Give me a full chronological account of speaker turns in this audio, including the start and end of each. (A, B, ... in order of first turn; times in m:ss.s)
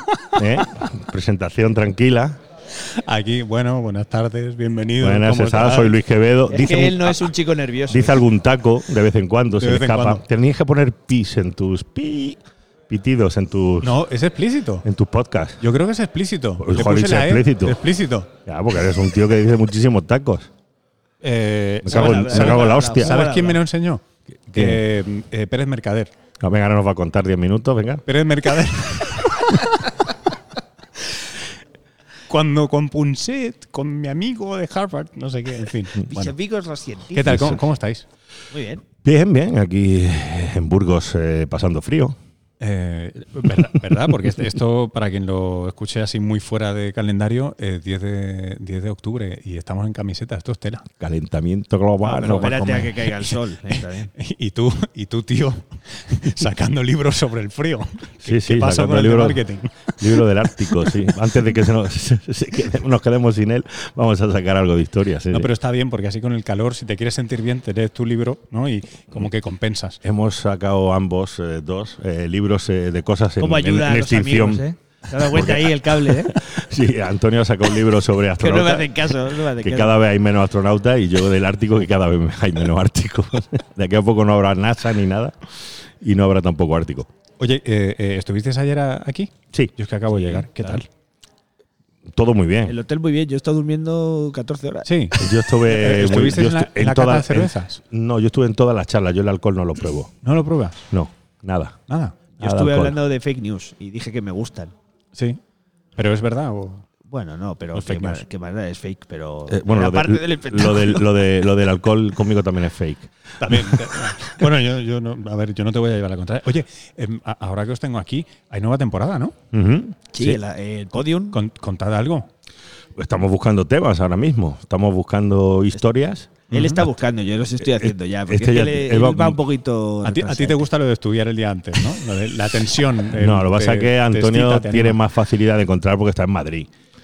0:00.3-0:02.4 A
0:02.8-0:06.0 B
0:05.0-0:07.3 A
0:06.5-0:08.2 C
0:07.9-0:14.0 A
0:09.6-0:10.2 B
0:13.8-0:14.8 B
0:14.8-0:15.6 A
0:15.6-0:18.3 B
0:16.6-0:17.8 A
0:18.4-0:20.5 A
0:21.2-0:26.1 B
0:21.8-0:23.2 A
0:21.9-0:23.6 C
0:24.5-0:24.8 A
0:26.4-0:28.0 A
0:28.1-0:30.1 B
0:32.3-0:36.3 B
0:36.1-0:37.6 C
0:37.1-0:38.1 B
0:37.3-0:37.6 A
0:38.5-0:38.8 C
0:39.0-0:42.2 A
0:42.6-0:50.9 B
0:51.0-0:52.5 A
0:52.0-0:54.1 C
0:52.2-1:01.1 B
0:58.2-0:59.4 A
1:00.0-1:05.5 A
1:05.3-1:10.0 B
1:10.0-1:25.4 A
1:13.4-1:16.4 C
1:18.4-1:20.0 C
1:26.0-1:27.1 A
1:27.4-1:30.9 B
1:29.5-1:30.8 A
1:32.1-1:32.8 A
1:32.7-1:34.9 C
1:34.8-1:37.8 B
1:35.2-1:40.1 A
1:40.2-1:40.8 B
1:40.9-1:41.8 A
1:41.9-1:42.2 B
1:42.4-1:44.7 C
1:42.4-1:43.0 A
1:46.0-1:46.8 B
1:47.1-1:51.2 C
1:47.8-1:48.2 B
1:49.5-1:53.8 A
1:53.4-1:59.4 B
1:59.5-2:00.4 A
2:00.1-2:01.4 C
2:01.3-2:02.3 B
2:03.0-2:06.3 A
2:06.5-2:06.9 B
2:06.5-2:10.6 C
2:07.7-2:09.4 A
2:10.0-2:15.0 B
2:13.1-2:16.7 A